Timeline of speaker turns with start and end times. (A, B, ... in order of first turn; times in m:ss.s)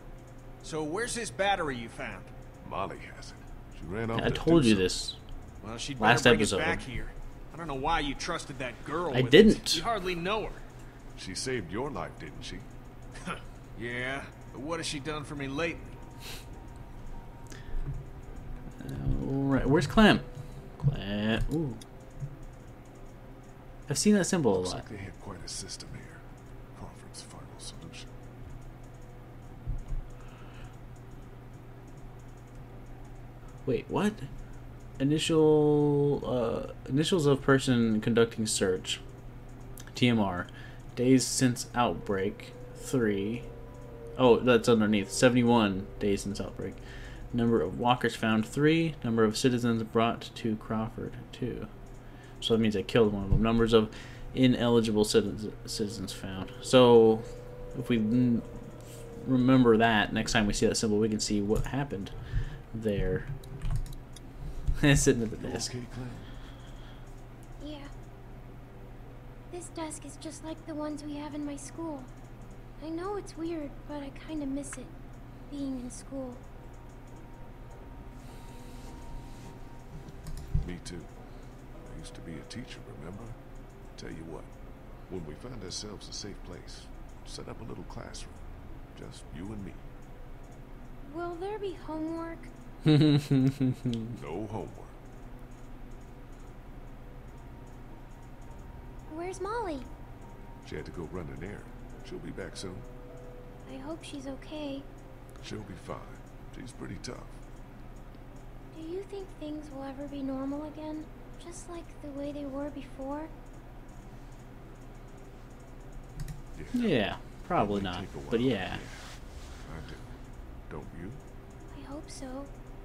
0:00.6-0:02.3 A
0:02.6-0:04.9 B
0:04.1-0:05.2 C
0:05.6-0:10.6 A
0:06.0-0:06.8 C
0:09.1-0:09.8 C
0:11.2-0:12.6 B
0:13.8-0:16.0 A
0:18.8-0:20.2 C
0:20.8-0:21.8 C
0:23.9-0:24.8 C
0:24.5-0:26.2 B
0:26.7-0:28.1 B
0:33.6-0:34.3 C
0:35.0-0:39.0 C
0:39.9-0:43.5 C
0:44.2-0:46.8 C
0:47.3-0:51.7 C
0:52.4-0:58.5 C
0:59.2-1:02.1 C
1:02.7-1:03.3 C
1:04.8-1:05.7 C
1:05.4-1:06.3 B
1:07.6-1:07.9 D
1:09.5-1:12.1 D
1:12.8-1:14.9 D
1:15.5-1:16.4 D
1:20.6-1:21.1 B
1:21.8-1:23.4 B
1:24.0-1:24.5 B
1:25.1-1:28.4 B
1:28.9-1:29.8 B
1:31.0-1:32.5 D
1:32.8-1:34.0 C
1:34.1-1:35.0 B
1:39.1-1:39.9 D
1:40.6-1:42.9 B
1:43.6-1:44.8 D
1:45.4-1:47.4 B
1:48.7-1:53.3 D
1:56.5-1:57.0 B
1:56.7-1:58.8 C
1:57.5-1:59.1 B
1:59.6-2:00.0 B
2:00.7-2:01.2 B
2:01.7-2:02.5 D